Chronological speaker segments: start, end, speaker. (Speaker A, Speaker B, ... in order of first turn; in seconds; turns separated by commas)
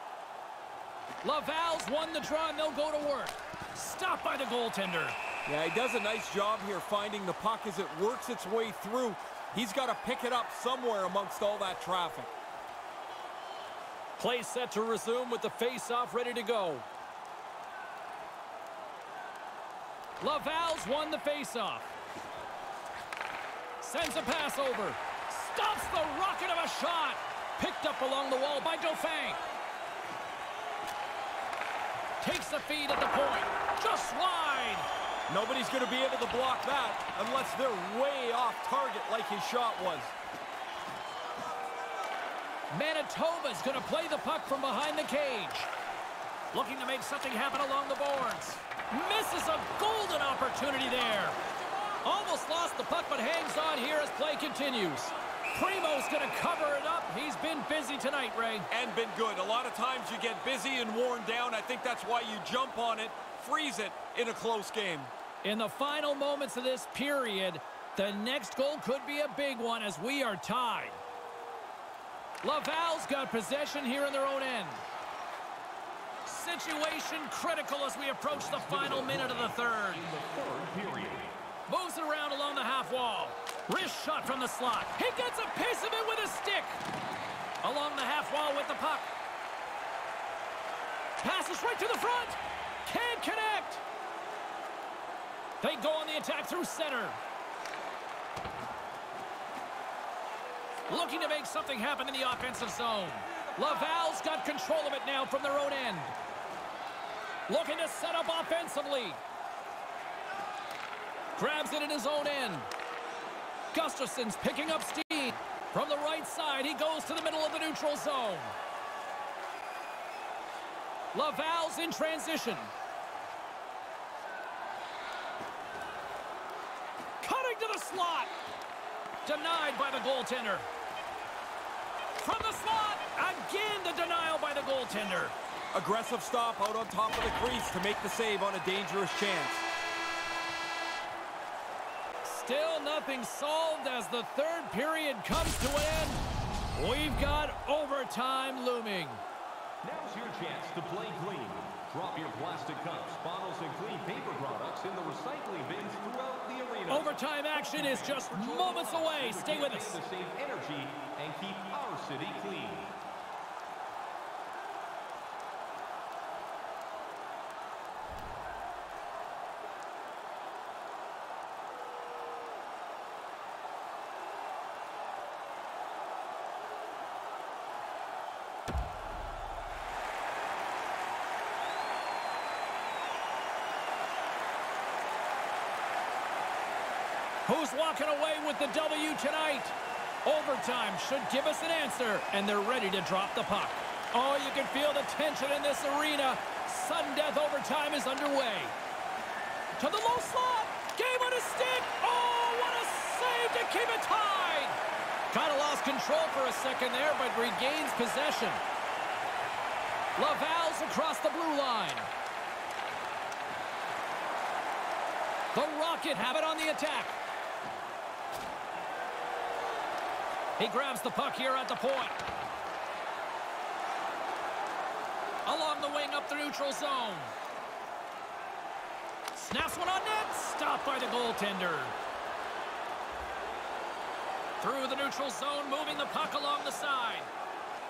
Speaker A: 1.2-5.2, Speaker B: 5.5-12.3, Speaker A: 14.2-16.9, Speaker A: 20.2-21.9, Speaker A: 23.8-29.4, Speaker A: 32.2-34.9, Speaker B: 35.3-40.1, Speaker A: 42.7-45.7, Speaker A: 46.5-51.4, Speaker A: 52.0-58.7, Speaker B: 58.7-65.1, Speaker A: 65.4-71.0, Speaker A: 72.4-74.8, Speaker A: 76.2-80.0, Speaker C: 78.4-81.4, Speaker A: 81.7-86.8, Speaker A: 87.6-89.1, Speaker A: 91.2-93.8, Speaker A: 95.6-97.2, Speaker A: 100.9-106.1, Speaker A: 107.5-109.2, Speaker A: 111.3-112.7, Speaker A: 113.7-118.5, Speaker A: 121.1-122.7, Speaker A: 127.2-128.3, Speaker A: 129.2-130.7, Speaker A: 132.2-135.3, Speaker B: 135.7-139.7, Speaker A: 142.2-146.2, Speaker A: 146.7-149.2, Speaker C: 149.8-162.9, Speaker A: 156.9-160.0, Speaker A: 187.4-198.7, Speaker A: 199.8-204.8, Speaker A: 205.3-208.6, Speaker A: 210.2-212.1, Speaker A: 215.5-217.1, Speaker A: 220.6-222.2, Speaker A: 225.4-227.3, Speaker A: 229.3-231.9, Speaker A: 234.6-237.3